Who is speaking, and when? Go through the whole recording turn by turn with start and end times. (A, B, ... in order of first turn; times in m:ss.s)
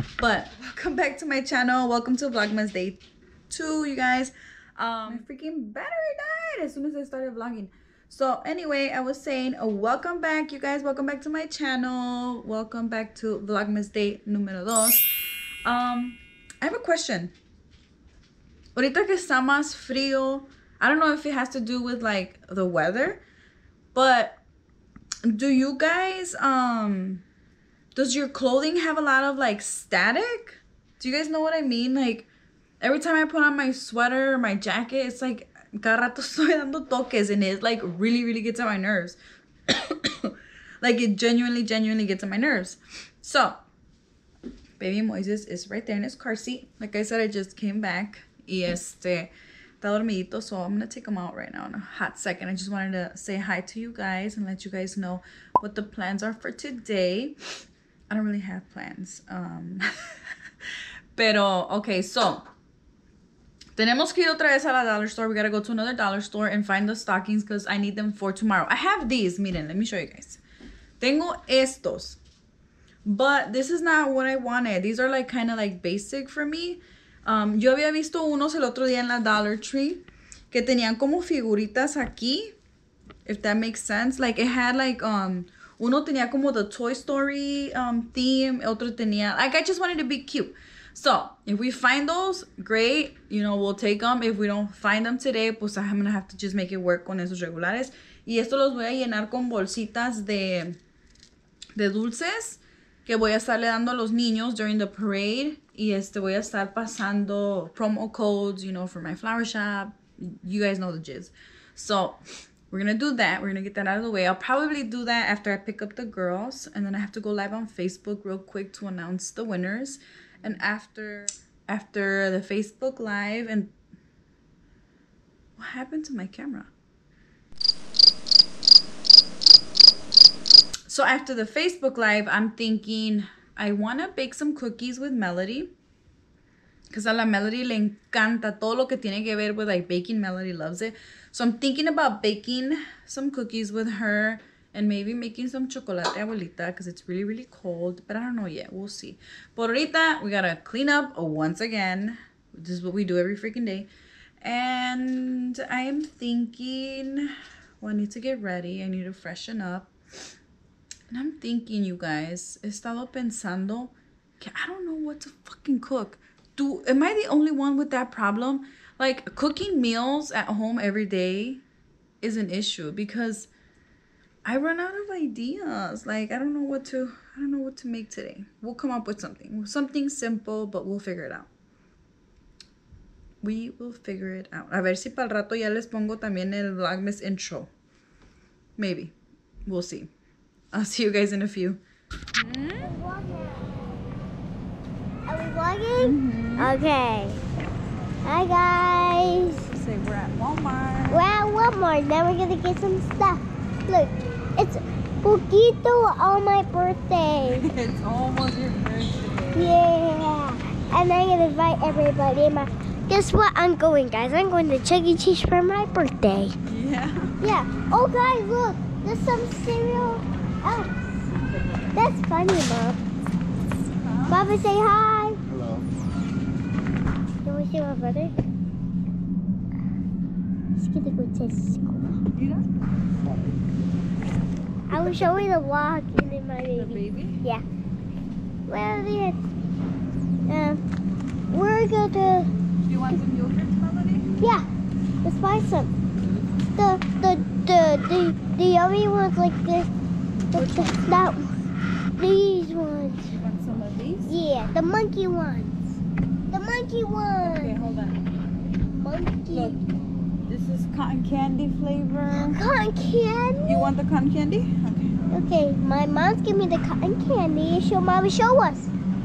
0:00.2-0:15.1 A
0:15.6-0:17.3 A
0:18.7-0:23.2 A
0:23.9-0:24.4 A
0:25.2-0:27.2 A
0:27.9-0:32.3 A
0:32.8-0:43.6 A
0:44.8-0:49.3 A
0:49.8-0:57.4 A
0:58.1-1:00.2 A
1:01.1-1:02.4 A
1:03.8-1:10.4 A
1:11.0-1:12.2 A
1:13.0-1:22.5 A
1:23.2-1:40.8 A
1:41.8-2:03.7 A
2:05.6-2:06.7 A
2:10.9-2:15.7 A
2:16.9-2:33.9 A
2:34.4-2:39.9 A
2:41.1-2:51.6 A
2:52.2-2:53.5 A
2:54.4-3:01.5 A
3:03.4-3:07.7 A
3:08.8-3:09.1 A
3:09.6-3:10.1 A
3:10.7-3:11.8 A
3:12.3-3:12.9 A
3:12.8-3:13.9 B
3:15.2-3:17.4 B
3:16.0-3:16.8 A
3:18.2-3:19.6 B
3:19.5-3:21.3 A
3:21.1-3:27.6 B
3:27.4-3:29.7 A
3:29.5-3:36.5 B
3:36.6-3:37.3 A
3:37.4-3:41.2 B
3:41.9-3:43.0 B
3:44.0-3:44.4 A
3:44.3-3:45.4 B
3:47.4-3:48.3 B
3:50.8-3:52.1 B
3:52.3-3:52.6 A
3:54.9-3:57.6 B
3:54.9-3:55.3 A
3:56.7-3:57.4 A
3:58.7-3:59.4 B
4:00.5-4:00.8 B
4:01.5-4:02.5 B
4:02.8-4:04.5 A
4:04.4-4:04.6 B
4:05.2-4:05.9 B
4:06.8-4:09.9 B
4:10.5-4:11.6 A
4:10.5-4:11.5 B
4:12.2-4:13.3 B
4:13.3-4:14.3 A
4:14.2-4:16.0 B
4:16.5-4:17.8 B
4:17.4-4:18.2 A
4:18.8-4:19.8 B
4:19.5-4:19.8 A
4:20.5-4:22.6 A
4:22.3-4:23.9 B
4:23.6-4:25.2 A
4:25.3-4:28.9 B